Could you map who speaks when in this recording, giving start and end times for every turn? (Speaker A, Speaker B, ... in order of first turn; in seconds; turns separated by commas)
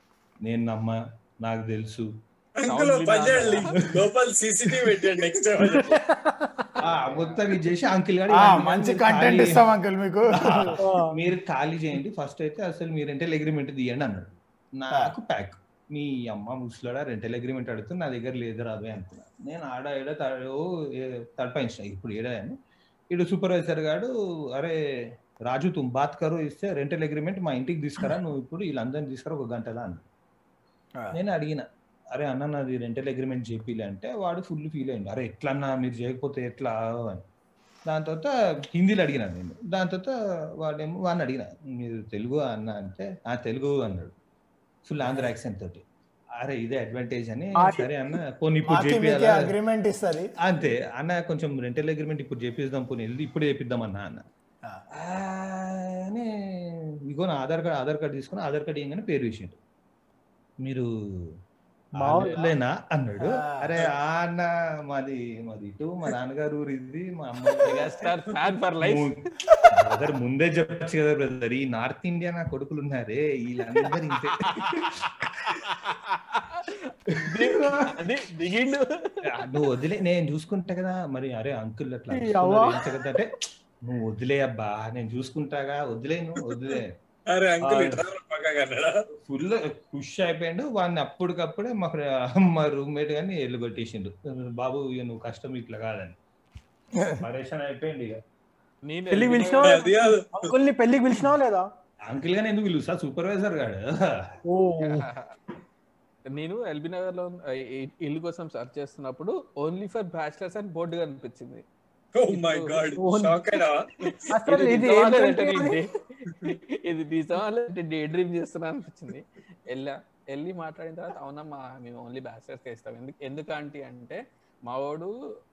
Speaker A: 0.4-2.1, Speaker B: 2.6-6.0, Speaker C: 2.6-3.7, Speaker A: 3.8-4.1, Speaker A: 4.7-5.0, Speaker D: 5.5-6.7, Speaker A: 6.8-9.7, Speaker C: 6.9-7.4, Speaker E: 8.3-10.8, Speaker A: 10.3-22.6, Speaker D: 10.8-11.1, Speaker A: 23.1-24.8, Speaker A: 25.5-30.0, Speaker A: 31.1-37.2, Speaker A: 37.9-44.1, Speaker A: 44.9-45.8, Speaker E: 45.0-45.4, Speaker A: 46.4-49.5, Speaker D: 47.5-48.2, Speaker E: 48.7-50.3, Speaker A: 50.4-54.2, Speaker A: 54.9-59.5, Speaker A: 60.6-61.3, Speaker D: 62.0-62.5, Speaker A: 62.0-68.1, Speaker E: 63.2-63.9, Speaker C: 67.7-69.1, Speaker A: 68.8-69.2, Speaker A: 69.7-75.6, Speaker E: 74.5-74.9, Speaker E: 75.5-76.2, Speaker C: 76.4-79.3, Speaker A: 77.1-77.9, Speaker A: 79.3-83.3, Speaker D: 82.1-82.8, Speaker A: 83.8-86.9, Speaker B: 87.3-89.0, Speaker A: 87.6-88.0, Speaker A: 89.2-96.2, Speaker E: 96.9-97.2, Speaker A: 97.2-98.2, Speaker C: 98.8-99.8, Speaker D: 99.1-101.7, Speaker B: 99.5-100.4, Speaker A: 102.0-104.3, Speaker D: 104.5-105.1, Speaker C: 104.8-105.3, Speaker C: 106.3-111.6, Speaker B: 112.1-114.8, Speaker C: 112.3-112.9, Speaker D: 113.0-113.6, Speaker C: 114.1-125.1, Speaker D: 114.3-115.8